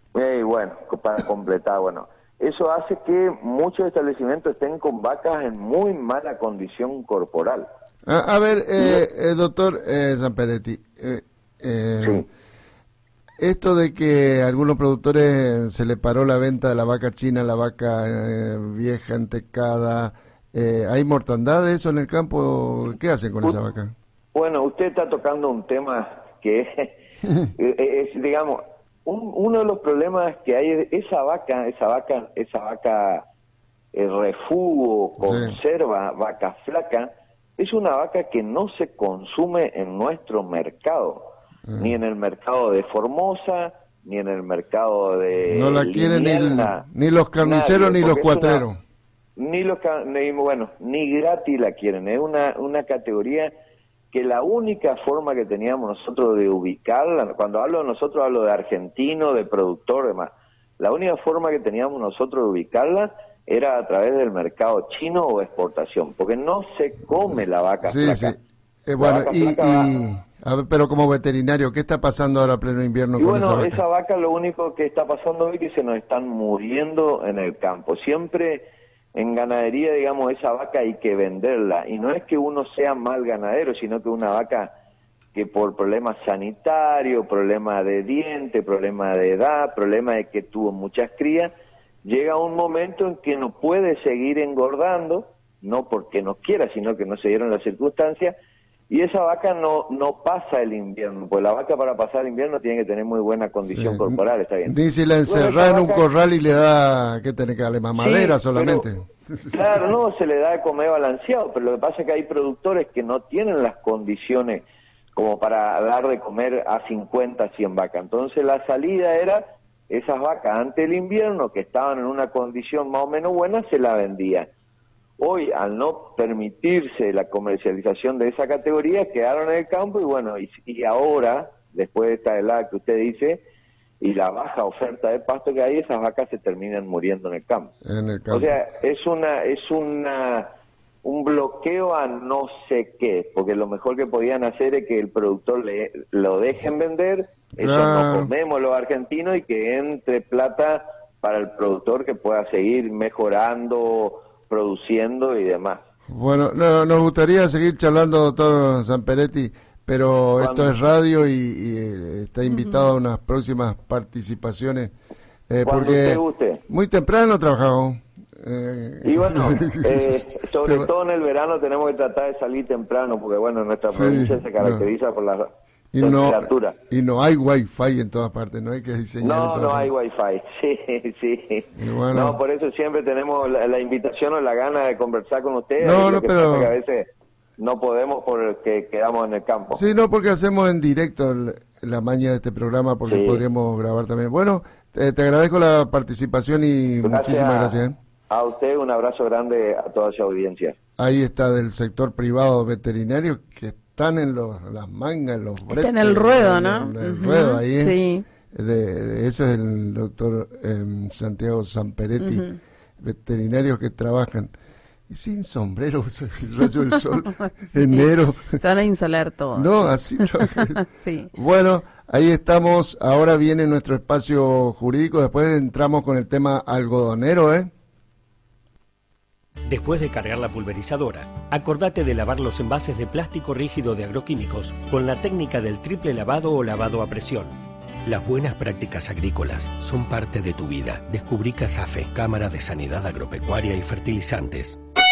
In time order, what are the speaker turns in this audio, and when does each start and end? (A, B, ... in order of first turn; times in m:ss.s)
0:00.1-0:07.7 A
0:08.0-0:12.2 B
0:13.4-0:23.9 B
0:24.3-0:27.0 A
0:27.6-0:33.2 A
0:33.9-0:41.3 A
0:35.2-0:35.5 B
0:41.7-0:41.9 B
0:41.8-0:46.8 A
0:45.5-0:48.8 B
0:47.4-0:48.6 A
0:49.4-0:53.5 A
0:54.1-1:08.3 A
1:07.8-1:13.8 B
1:09.0-1:09.9 A
1:13.2-1:24.7 A
1:25.3-1:31.5 A
1:32.0-1:38.3 A
1:38.9-1:44.7 A
1:43.7-1:44.1 B
1:44.7-1:49.8 B
1:45.3-1:46.0 A
1:48.0-1:48.8 A
1:49.5-1:54.6 A
1:55.2-2:04.5 A
2:05.2-2:13.4 A
2:14.0-2:17.7 A
2:17.8-2:18.5 B
2:18.3-2:20.5 A
2:21.0-2:35.8 A
2:27.6-2:28.3 B
2:36.1-2:44.9 B
2:40.4-2:40.7 A
2:42.5-2:42.8 C
2:45.5-2:50.9 B
2:45.6-2:46.6 A
2:49.0-2:56.8 A
2:53.9-2:54.8 B
2:55.9-2:59.9 B
2:59.2-3:09.8 A
3:01.8-3:02.4 B
3:05.8-3:06.7 B
3:09.7-3:18.0 B
3:13.1-3:13.4 A
3:17.0-3:17.8 A
3:18.3-3:20.8 A
3:21.0-3:32.5 B
3:25.7-3:28.2 C
3:32.2-3:32.6 C
3:33.0-3:34.5 B
3:35.1-3:38.6 B
3:37.6-3:41.3 C
3:39.5-3:40.8 B
3:41.3-3:47.7 B
3:49.7-4:04.8 D